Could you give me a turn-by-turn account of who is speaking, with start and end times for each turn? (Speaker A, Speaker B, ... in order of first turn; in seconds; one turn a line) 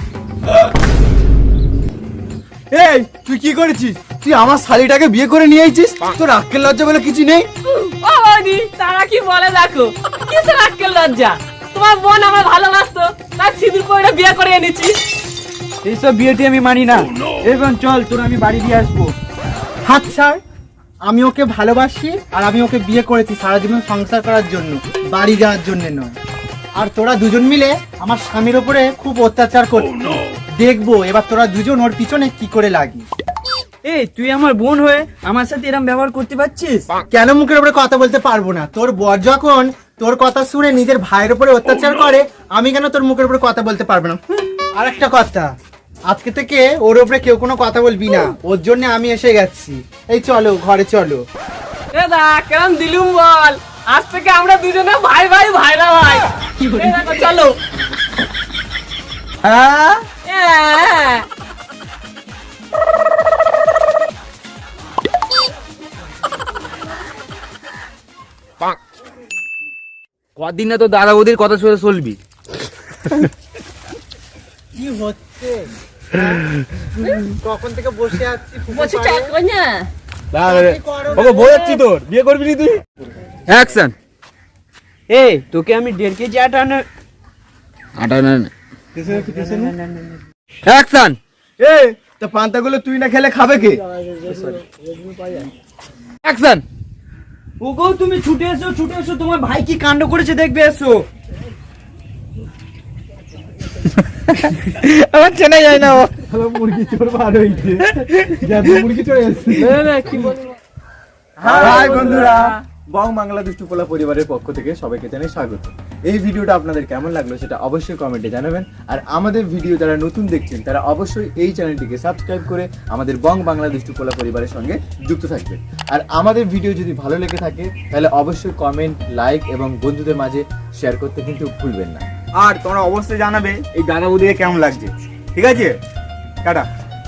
Speaker A: 2.7-7.5
Speaker B: 7.7-14.9
Speaker C: 15.8-19.1
Speaker D: 19.8-20.4
Speaker D: 21.0-26.1
Speaker D: 26.8-33.0
Speaker C: 33.8-36.9
Speaker D: 37.1-45.5
Speaker D: 46.1-51.2
Speaker B: 51.9-57.5
Speaker D: 59.4-60.0
Speaker B: 60.2-61.2
Speaker E: 70.3-72.2
Speaker D: 74.7-76.4
Speaker D: 77.2-79.3
Speaker B: 78.7-79.9
Speaker E: 80.3-82.8
Speaker D: 80.4-81.8
Speaker E: 83.5-83.9
Speaker C: 85.1-86.8
Speaker E: 88.0-88.5
Speaker A: 89.0-89.7
Speaker C: 89.3-90.2
Speaker E: 90.7-91.2
Speaker A: 91.6-93.8
Speaker E: 96.2-96.6
Speaker C: 97.6-101.0
Speaker E: 104.4-106.0
Speaker A: 106.0-109.8
Speaker B: 109.5-110.4
Speaker B: 111.4-112.5
Speaker A: 111.4-132.0
Speaker E: 132.4-135.8